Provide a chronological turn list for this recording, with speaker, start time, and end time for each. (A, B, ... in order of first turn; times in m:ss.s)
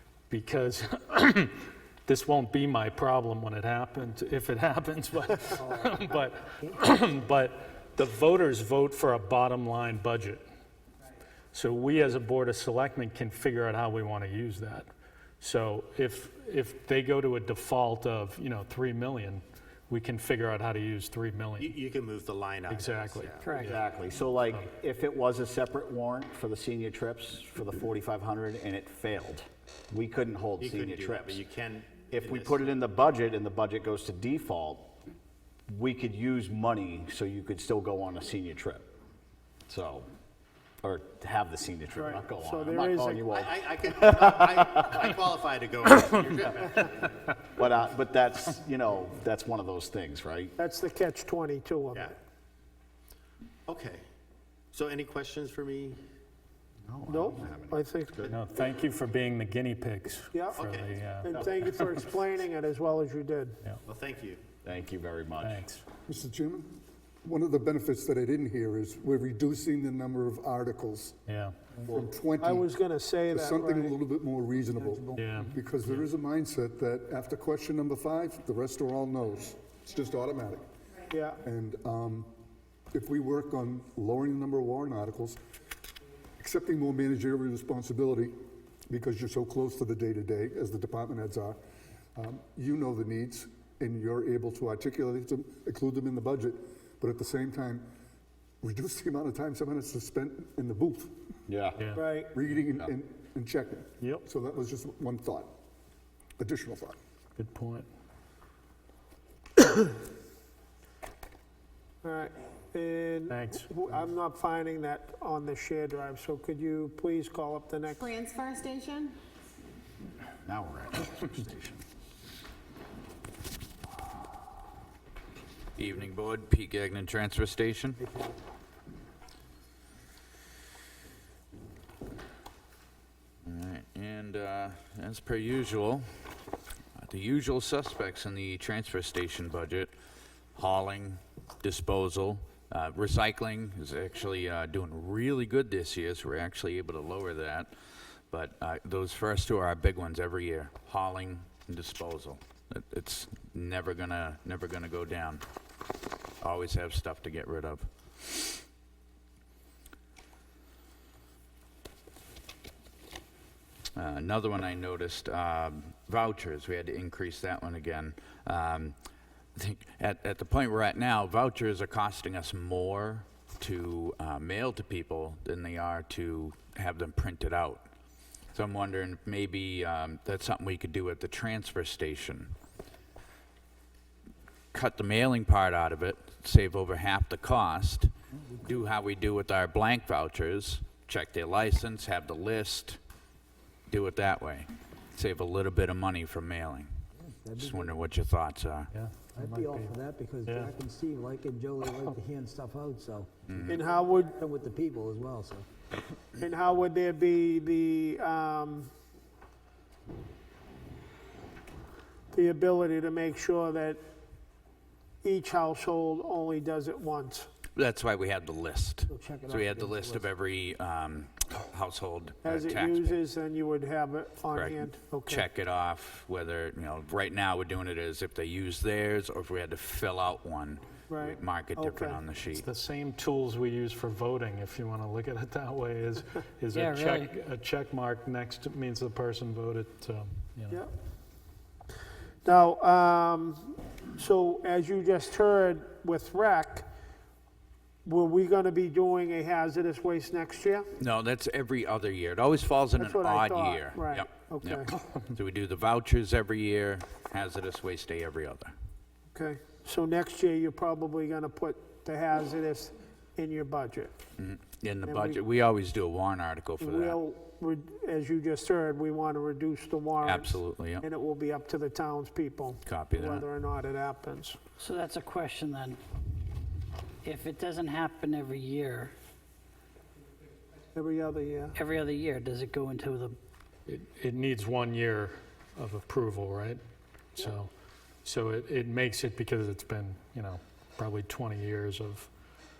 0:00.3-0:10.4 A
0:05.6-0:06.0 B
0:11.5-0:14.9 A
0:15.4-0:21.7 A
0:21.6-0:23.9 C
0:22.7-0:23.3 A
0:23.4-0:23.7 D
0:23.6-0:31.4 E
0:30.6-0:32.9 C
0:32.1-0:35.0 E
0:35.7-0:38.9 E
0:39.7-0:40.1 E
0:40.8-0:45.1 E
0:42.0-0:43.3 F
0:43.3-0:47.4 C
0:47.6-0:50.5 E
0:50.6-0:52.1 F
0:53.7-0:54.0 C
0:54.7-0:56.0 C
0:56.8-0:57.7 E
0:57.1-0:58.2 F
0:58.2-0:58.4 C
0:58.3-1:01.7 A
1:00.5-1:01.5 C
1:01.2-1:03.6 F
1:03.8-1:04.4 C
1:04.6-1:05.6 E
1:05.4-1:05.8 A
1:06.1-1:11.2 G
1:11.3-1:11.6 A
1:11.9-1:12.7 G
1:12.4-1:13.9 F
1:13.3-1:20.6 G
1:14.8-1:15.3 B
1:15.2-1:16.0 A
1:21.1-1:21.4 F
1:21.4-1:22.3 G
1:22.9-1:25.4 G
1:26.4-1:28.3 G
1:28.9-1:31.6 G
1:32.2-1:37.8 G
1:38.6-1:41.1 G
1:41.5-1:41.9 E
1:41.8-1:42.0 A
1:41.9-1:42.3 F
1:42.2-1:45.5 G
1:46.4-1:47.0 G
1:47.4-1:47.9 A
1:52.0-1:58.1 F
1:53.3-1:53.7 A
2:00.4-2:01.8 E
2:05.8-2:08.0 H
2:13.4-2:16.0 H
2:17.0-2:19.9 H
2:20.6-2:27.7 H
2:28.3-2:35.4 H
2:36.4-2:38.6 H
2:44.0-2:49.0 H
2:49.5-2:57.9 H
2:58.5-3:02.5 H
3:04.7-3:08.1 H
3:08.5-3:08.8 B
3:08.6-3:13.0 H
3:13.9-3:16.9 H
3:17.2-3:18.0 B
3:17.6-3:18.9 H
3:18.9-3:20.7 A
3:19.3-3:23.3 B
3:23.5-3:23.8 H
3:23.6-3:24.4 F
3:24.2-3:25.6 B
3:26.4-3:28.9 F
3:32.3-3:34.0 F
3:35.2-3:37.5 F
3:37.7-3:43.2 H
3:39.1-3:40.2 B
3:42.4-3:45.5 F
3:44.5-3:52.6 H
3:51.1-3:52.2 F
3:52.6-4:00.8 A
3:56.7-3:57.3 D
4:02.4-4:06.9 F
4:08.0-4:10.9 F
4:11.0-4:18.7 H
4:13.0-4:14.9 F
4:19.3-4:24.1 F
4:24.4-4:27.2 H
4:25.1-4:25.4 F
4:26.8-4:34.6 F
4:30.2-4:31.0 H
4:32.8-4:33.4 H
4:34.8-4:36.0 D
4:37.2-4:39.1 D
4:40.9-4:41.8 F
4:41.7-4:43.4 D
4:43.8-4:46.8 A
4:47.3-4:47.7 A
4:48.2-4:52.3 A